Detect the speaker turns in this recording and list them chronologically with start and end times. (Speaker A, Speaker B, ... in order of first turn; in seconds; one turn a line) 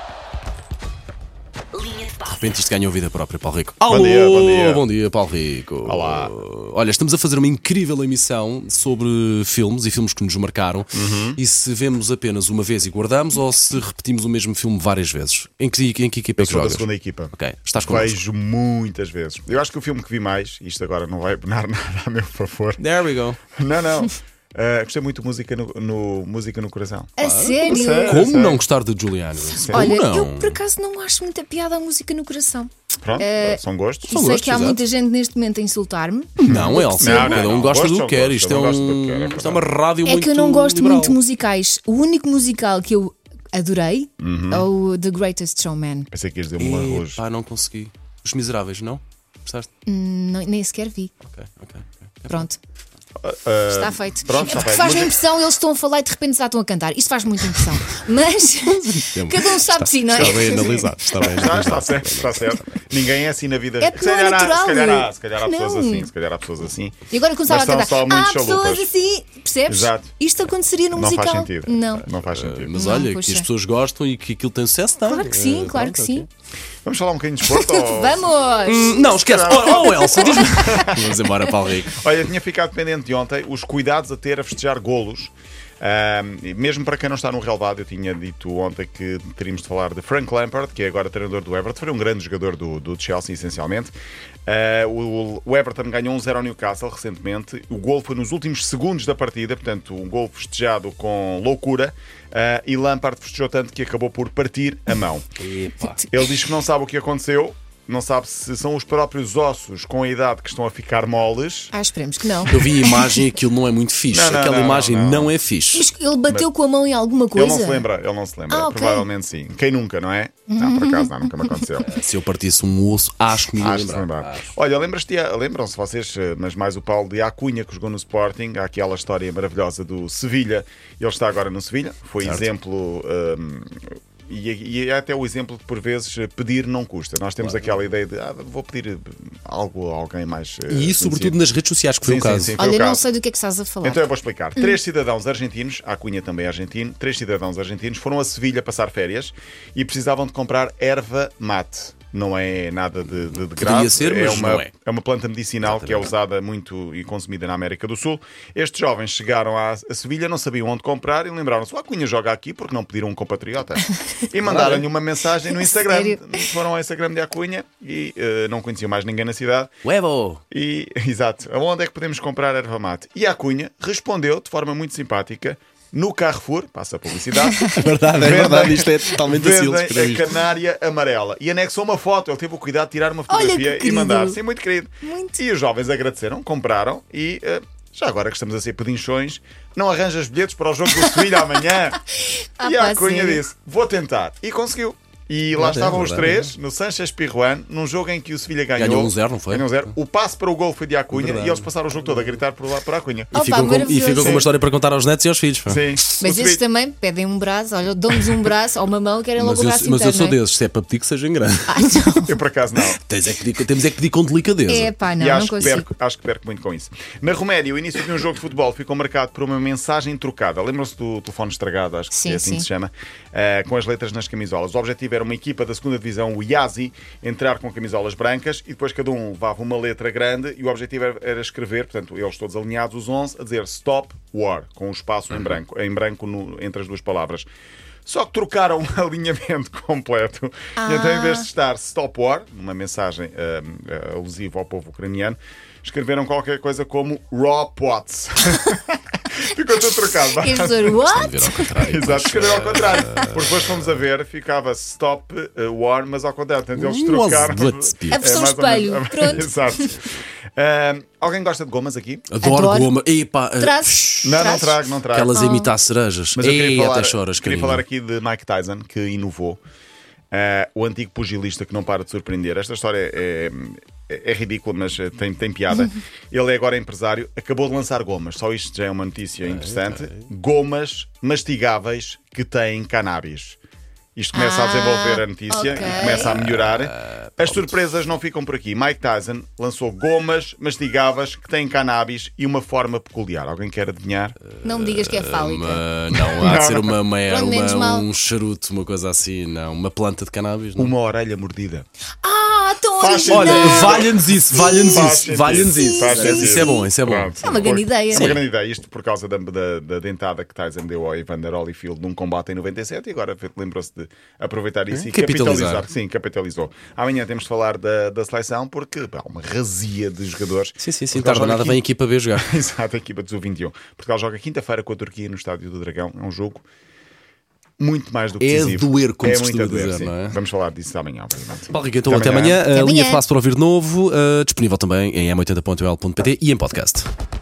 Speaker A: 2.1-18.1
Speaker B: 3.9-4.8
Speaker B: 5.8-6.3
Speaker B: 10.9-11.4
Speaker B: 16.4-22.8
Speaker A: 22.8-23.4
Speaker B: 23.5-28.6
Speaker C: 27.2-28.3
Speaker A: 27.2-30.6
Speaker C: 29.6-37.5
Speaker B: 29.6-30.0
Speaker B: 33.0-34.2
Speaker A: 34.1-34.8
Speaker A: 36.4-41.2
Speaker B: 36.4-39.7
Speaker C: 40.0-46.1
Speaker B: 44.2-44.7
Speaker B: 46.1-47.2
Speaker A: 46.6-49.7
Speaker C: 49.9-51.1
Speaker A: 51.2-52.5
Speaker C: 52.3-52.6
Speaker B: 53.2-55.2
Speaker C: 53.7-61.5
Speaker A: 58.7-62.9
Speaker B: 60.1-68.9
Speaker C: 63.8-66.1
Speaker C: 67.1-72.0
Speaker B: 69.7-70.1
Speaker B: 70.9-72.8
Speaker A: 72.1-76.3
Speaker C: 72.7-73.5
Speaker C: 75.0-76.2
Speaker B: 76.8-78.3
Speaker C: 77.5-80.8
Speaker A: 78.6-82.0
Speaker B: 79.2-81.1
Speaker B: 81.9-93.9
Speaker B: 94.5-105.2
Speaker A: 105.4-106.0
Speaker B: 106.1-111.7
Speaker C: 111.7-113.2
Speaker A: 112.5-115.9
Speaker B: 114.1-115.3
Speaker C: 115.7-117.9
Speaker B: 117.3-121.9
Speaker C: 118.5-119.0
Speaker C: 120.5-121.8
Speaker A: 121.8-124.5
Speaker B: 123.5-141.4
Speaker A: 132.2-132.4
Speaker A: 137.4-137.7
Speaker A: 140.7-142.6
Speaker B: 142.0-143.0
Speaker C: 142.6-144.1
Speaker B: 143.8-169.7
Speaker A: 153.6-154.7
Speaker A: 155.6-156.1
Speaker A: 164.4-164.8
Speaker C: 165.5-166.5
Speaker A: 169.8-170.4
Speaker B: 170.5-192.0
Speaker C: 177.4-177.8
Speaker A: 177.7-180.3
Speaker C: 183.3-184.4
Speaker C: 185.0-185.4
Speaker C: 192.2-193.4
Speaker B: 192.6-203.3
Speaker A: 195.5-196.5
Speaker A: 198.8-199.9
Speaker A: 201.1-202.3
Speaker C: 203.3-204.5
Speaker A: 203.3-205.8
Speaker B: 204.2-204.5
Speaker B: 205.7-206.6
Speaker C: 206.2-210.4
Speaker A: 209.4-211.9
Speaker C: 211.7-212.4
Speaker B: 212.2-213.0
Speaker A: 213.0-214.9
Speaker C: 214.7-215.8
Speaker B: 215.2-237.5
Speaker C: 222.1-222.7
Speaker B: 238.1-251.0
Speaker C: 240.8-241.5
Speaker C: 250.4-251.9
Speaker A: 251.0-254.0
Speaker B: 251.7-262.3
Speaker A: 256.7-258.3
Speaker C: 258.1-260.0
Speaker A: 262.3-267.8
Speaker C: 262.4-263.0
Speaker C: 263.6-265.7
Speaker B: 264.2-265.4
Speaker B: 266.3-269.6
Speaker B: 270.3-283.6
Speaker C: 275.7-276.0
Speaker A: 279.4-280.2
Speaker B: 284.1-294.4
Speaker C: 284.3-286.4
Speaker A: 286.0-287.8
Speaker A: 294.6-300.9
Speaker C: 294.6-295.8
Speaker B: 296.2-297.0
Speaker C: 297.3-298.1
Speaker B: 300.8-301.9
Speaker C: 302.2-306.9
Speaker B: 303.0-304.2
Speaker A: 303.3-307.3
Speaker B: 304.8-321.8
Speaker C: 307.4-308.3
Speaker A: 308.1-308.4
Speaker A: 314.9-315.9
Speaker A: 320.8-322.5
Speaker B: 322.4-326.6
Speaker B: 327.8-332.6
Speaker A: 328.4-330.4
Speaker A: 331.7-337.1
Speaker C: 332.7-333.2